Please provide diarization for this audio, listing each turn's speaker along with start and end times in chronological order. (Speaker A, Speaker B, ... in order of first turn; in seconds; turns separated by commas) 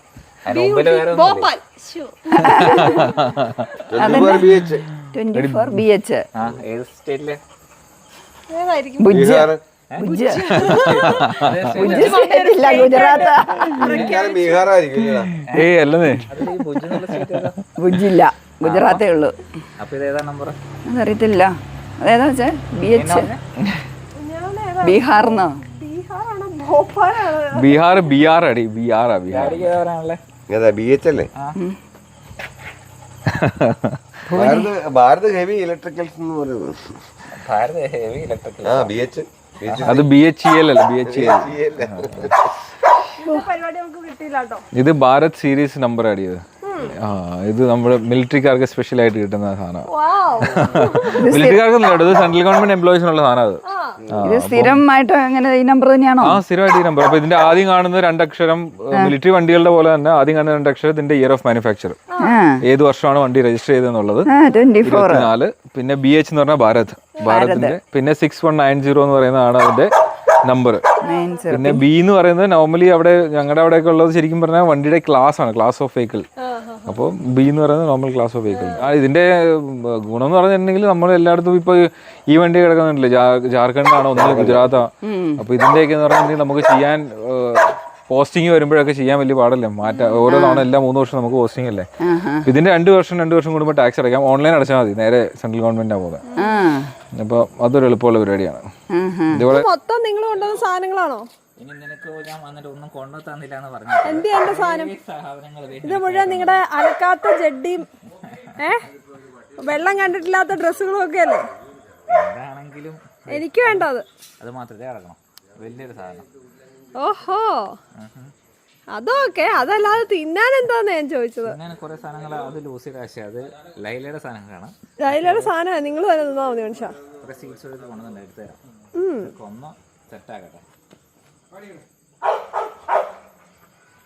Speaker A: 0.5-1.5, Speaker B: 0.5-3.3, Speaker C: 2.4-3.1, Speaker D: 2.8-3.6, Speaker E: 3.9-4.8, Speaker C: 3.9-6.3, Speaker D: 4.9-5.8, Speaker A: 6.4-7.4, Speaker B: 8.5-9.4, Speaker C: 9.0-10.6, Speaker E: 9.1-9.6, Speaker A: 9.9-12.3, Speaker B: 10.0-11.2, Speaker D: 10.6-11.6, Speaker B: 11.7-14.6, Speaker C: 11.8-14.0, Speaker E: 13.7-15.3, Speaker A: 13.8-14.1, Speaker D: 15.3-17.5, Speaker A: 16.3-17.6, Speaker C: 17.8-19.5, Speaker A: 18.6-19.1, Speaker A: 19.8-20.6, Speaker C: 20.9-23.3, Speaker A: 22.9-23.4, Speaker B: 24.2-28.1, Speaker C: 24.8-25.6, Speaker D: 27.6-29.6, Speaker A: 29.3-30.2, Speaker B: 29.4-29.7, Speaker E: 30.5-31.3, Speaker D: 33.4-34.5, Speaker E: 34.3-37.0, Speaker C: 34.4-34.7, Speaker A: 37.3-39.0, Speaker E: 38.6-40.1, Speaker A: 39.6-39.9, Speaker D: 39.8-42.3, Speaker E: 41.0-42.5, Speaker B: 43.2-44.6, Speaker D: 44.7-49.9, Speaker B: 46.6-47.0, Speaker B: 49.9-51.3, Speaker D: 50.4-53.6, Speaker C: 51.2-51.6, Speaker B: 53.7-54.0, Speaker E: 54.0-54.3, Speaker D: 54.1-54.8, Speaker C: 54.2-56.4, Speaker D: 56.2-62.1, Speaker C: 62.2-62.6, Speaker D: 62.6-64.3, Speaker C: 64.3-65.3, Speaker D: 64.8-69.9, Speaker C: 67.2-67.8, Speaker D: 70.5-70.8, Speaker B: 71.0-71.5, Speaker C: 71.0-71.8, Speaker D: 71.5-76.2, Speaker B: 76.4-77.0, Speaker D: 76.9-91.9, Speaker B: 78.5-78.9, Speaker E: 84.1-84.8, Speaker C: 85.0-85.4, Speaker C: 90.2-90.7, Speaker C: 92.0-92.5, Speaker D: 92.4-96.2, Speaker B: 96.3-96.6, Speaker C: 96.4-97.0, Speaker D: 97.2-98.7, Speaker C: 98.9-99.5, Speaker D: 99.3-99.6, Speaker B: 99.5-101.3, Speaker A: 101.6-106.6, Speaker B: 104.0-105.0, Speaker B: 105.8-107.9, Speaker B: 108.6-108.9, Speaker B: 109.6-111.5, Speaker A: 112.1-113.9, Speaker B: 113.3-114.1, Speaker A: 114.4-116.2, Speaker E: 115.6-117.0, Speaker B: 117.0-117.8, Speaker A: 118.0-118.3, Speaker B: 118.9-121.6, Speaker A: 121.4-125.5, Speaker B: 125.0-127.0, Speaker A: 127.2-128.6, Speaker B: 129.0-129.3, Speaker A: 129.2-130.6